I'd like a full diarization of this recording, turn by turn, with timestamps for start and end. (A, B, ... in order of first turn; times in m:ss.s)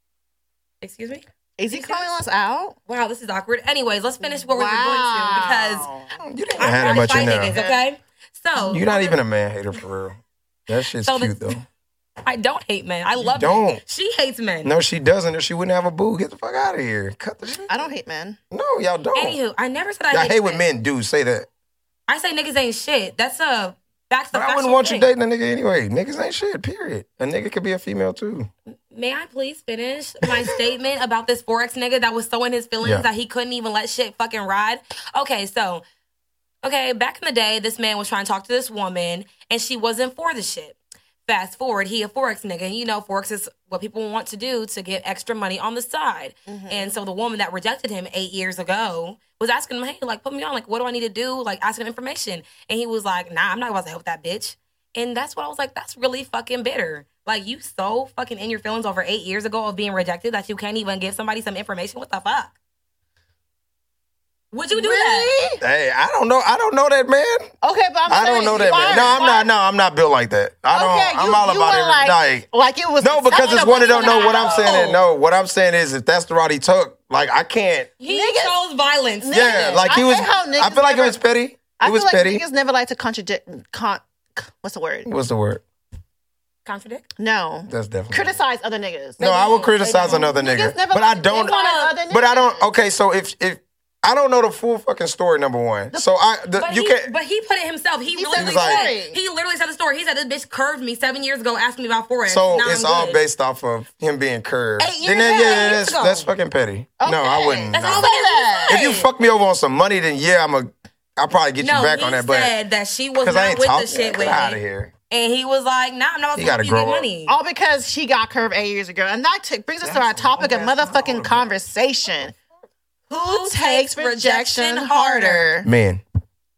0:00.8-0:02.1 A
0:01.6-0:02.8 B
0:02.9-0:05.9 A
0:04.2-0:07.8 B
0:06.2-0:07.6 C
0:06.6-0:09.2 A
0:08.7-0:11.6 C
0:11.0-0:11.5 A
0:12.2-0:14.7 A
0:13.2-0:13.8 C
0:14.6-0:17.7 C
0:17.7-0:18.4 B
0:18.5-0:19.4 C
0:19.2-0:20.6 A
0:20.1-0:21.5 C
0:22.1-0:25.1 A
0:24.3-0:28.5 C
0:28.9-0:35.8 A
0:30.3-0:30.5 C
0:32.8-0:33.1 C
0:36.6-0:40.8 A
0:41.3-1:02.6 A
0:46.5-0:46.9 B
1:04.5-1:05.3 A
1:04.7-1:05.6 B
1:05.6-1:07.5 C
1:07.6-1:09.5 B
1:08.1-1:12.4 C
1:08.6-1:09.4 A
1:10.7-1:14.9 B
1:13.0-1:17.9 C
1:13.4-1:15.0 A
1:18.0-1:19.9 A
1:18.1-1:18.6 B
1:19.2-1:21.2 B
1:19.3-1:22.4 C
1:21.8-1:25.1 B
1:25.1-1:25.6 C
1:26.6-1:27.0 A
1:27.2-1:32.7 B
1:27.7-1:28.4 C
1:29.2-1:30.4 A
1:29.2-1:37.1 C
1:31.3-1:31.9 A
1:36.6-1:43.2 A
1:38.1-1:39.2 B
1:38.4-1:38.9 C
1:42.3-1:48.1 C
1:44.8-1:45.9 B
1:45.4-1:46.3 A
1:47.0-1:48.8 B
1:47.7-1:49.1 A
1:48.7-1:52.5 C
1:51.6-1:57.3 A
1:53.2-1:54.9 C
1:56.4-1:57.1 C
1:57.3-2:02.4 B
1:59.8-2:01.6 C
2:03.1-2:05.7 B
2:03.2-2:05.5 A
2:05.6-2:06.0 C